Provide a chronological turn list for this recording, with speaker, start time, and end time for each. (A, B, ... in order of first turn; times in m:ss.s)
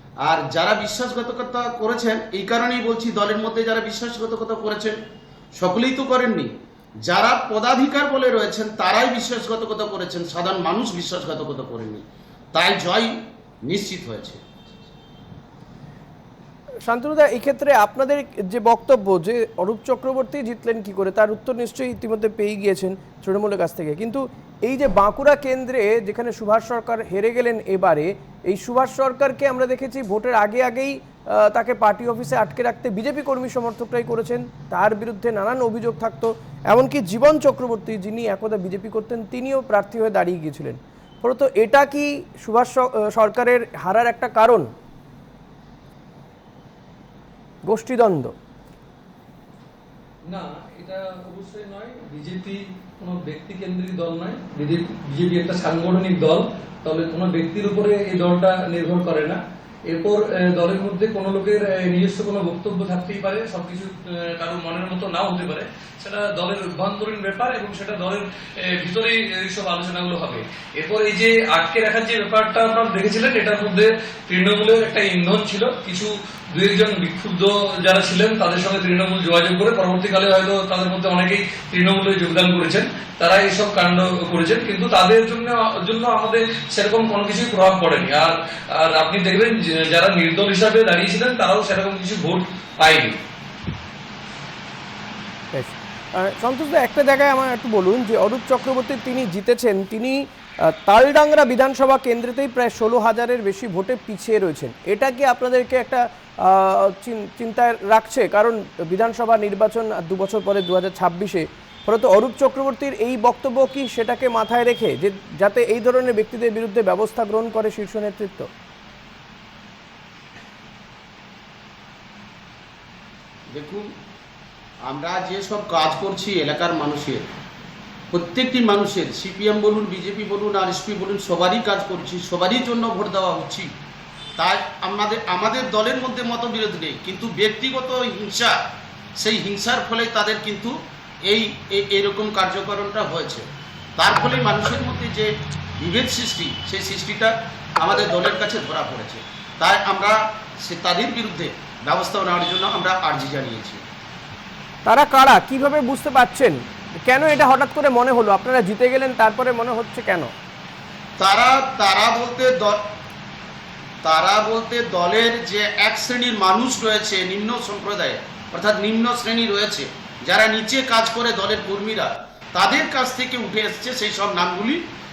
0:00.2-0:05.0 A
0:05.6-0:06.5 A
0:07.0-0:12.0 A
0:12.5-0:14.9 A
0:16.9-0:44.7 B
0:47.7-0:48.3 B
0:50.3-1:33.2 C
1:35.5-1:40.2 B
1:40.8-1:58.5 B
2:03.5-2:03.9 A
2:04.8-2:07.2 A
2:08.1-2:13.7 A
2:14.4-2:18.5 A
2:19.2-2:23.4 A
2:24.0-2:33.8 A
2:34.9-2:40.3 B
2:41.2-2:42.8 A
2:44.0-2:54.8 A